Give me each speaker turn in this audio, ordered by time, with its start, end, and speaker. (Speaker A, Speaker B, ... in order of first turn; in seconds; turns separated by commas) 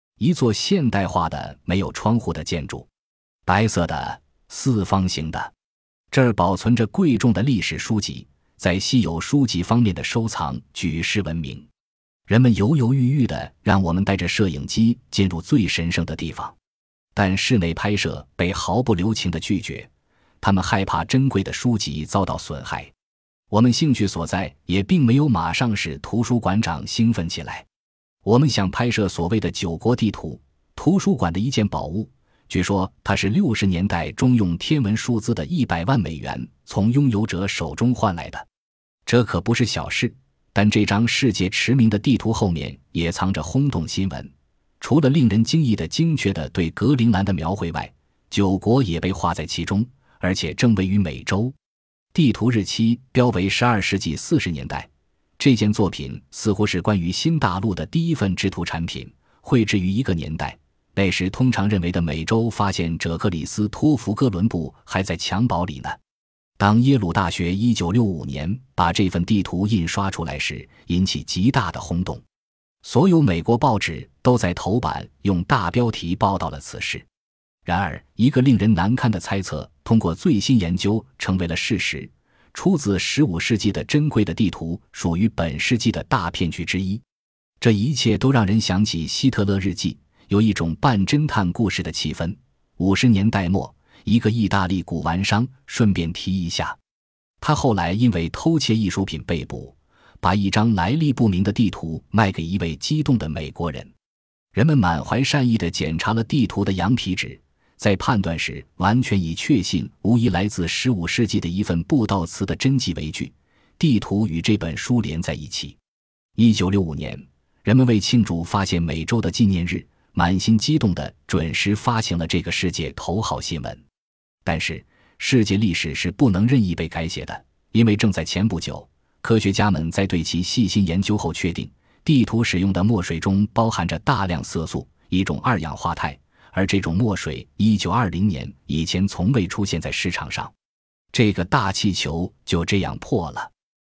Speaker A: 0.2-2.9, Speaker A: 3.5-5.5, Speaker A: 6.1-11.7, Speaker A: 12.3-16.6, Speaker A: 17.1-19.9, Speaker A: 20.4-22.9, Speaker A: 23.5-27.6, Speaker A: 28.2-38.5, Speaker A: 39.0-51.5, Speaker A: 52.1-66.0, Speaker A: 66.6-72.2, Speaker A: 72.8-77.1, Speaker A: 77.6-87.0, Speaker A: 87.6-96.8, Speaker A: 97.4-103.9, Speaker A: 104.5-115.8, Speaker A: 116.3-123.8, Speaker A: 124.4-140.5, Speaker A: 141.1-143.5